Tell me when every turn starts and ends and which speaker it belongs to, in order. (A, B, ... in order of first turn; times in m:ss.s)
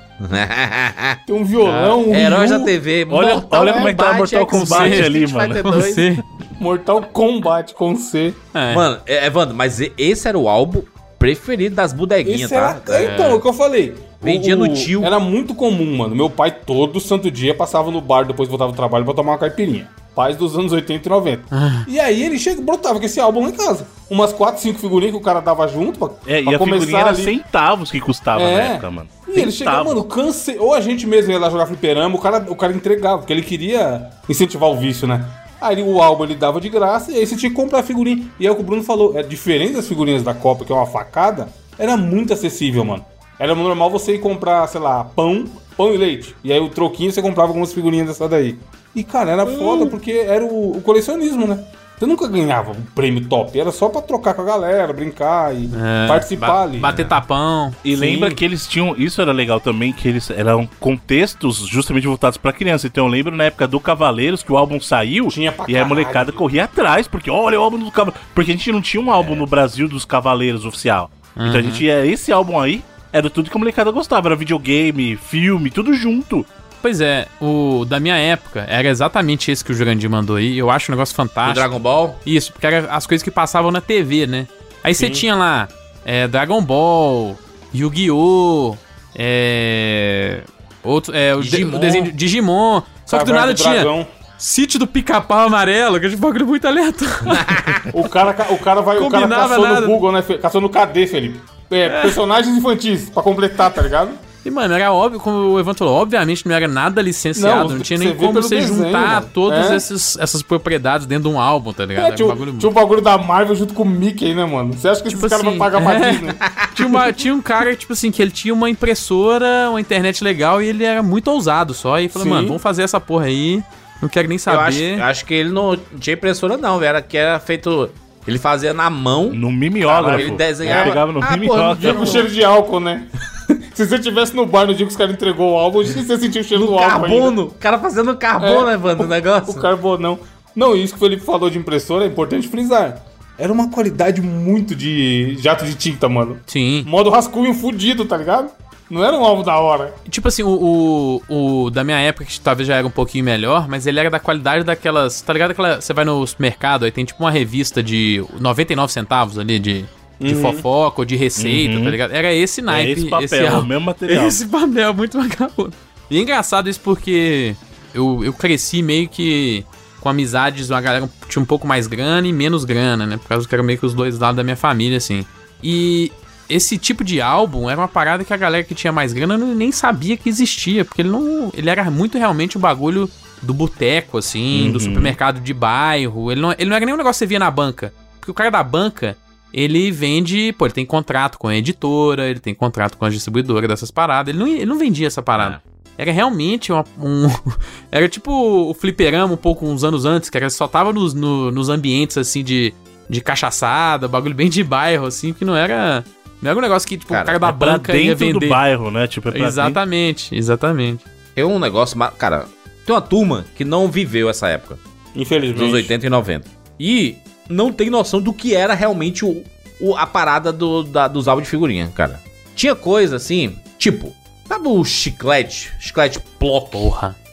0:00.2-0:01.2 A
0:01.3-0:02.7 B
0:01.6-0:02.0 C
0:02.1-0:06.2 A
0:03.1-0:05.8 D
0:04.5-0:06.2 C
0:06.6-0:08.4 B
0:08.5-0:08.8 C
0:08.7-0:13.2 A
0:12.2-0:27.4 B
0:12.9-0:13.4 C
0:14.2-0:15.1 A
0:21.5-0:21.9 C
0:26.2-0:30.0 D
0:28.3-0:57.1 B
0:49.5-0:49.9 A
0:55.7-0:57.8 C
0:57.8-1:16.5 D
0:57.9-0:58.4 B
1:05.3-1:06.4 B
1:11.4-1:11.8 C
1:16.8-1:21.7 C
1:21.4-1:22.2 A
1:22.2-1:37.8 C
1:25.0-1:25.2 B
1:31.4-1:32.1 A
1:33.1-1:34.1 B
1:37.3-1:37.9 A
1:37.9-1:44.2 B
1:39.0-1:40.0 C
1:41.8-1:42.2 C
1:44.4-1:52.7 C
1:47.3-1:49.8 B
1:52.0-1:56.4 B
1:55.1-2:05.0 C
1:56.4-1:56.9 A
2:02.1-2:02.6 B
2:04.5-2:12.3 A
2:09.3-2:12.2 D
2:10.1-2:11.0 B
2:11.8-2:17.4 B
2:16.5-2:19.7 A
2:18.4-2:30.0 B
2:26.5-2:26.9 C
2:30.1-3:28.6 C
2:40.2-2:40.6 B
2:41.4-2:42.0 D
2:42.7-2:44.4 D
3:04.5-3:05.2 D
3:15.4-3:15.6 A
3:27.1-3:27.4 A
3:27.4-3:29.8 D
3:29.3-3:31.0 C
3:31.4-3:34.8 A
3:35.1-3:35.9 B
3:35.5-3:46.9 A
3:46.7-3:47.1 C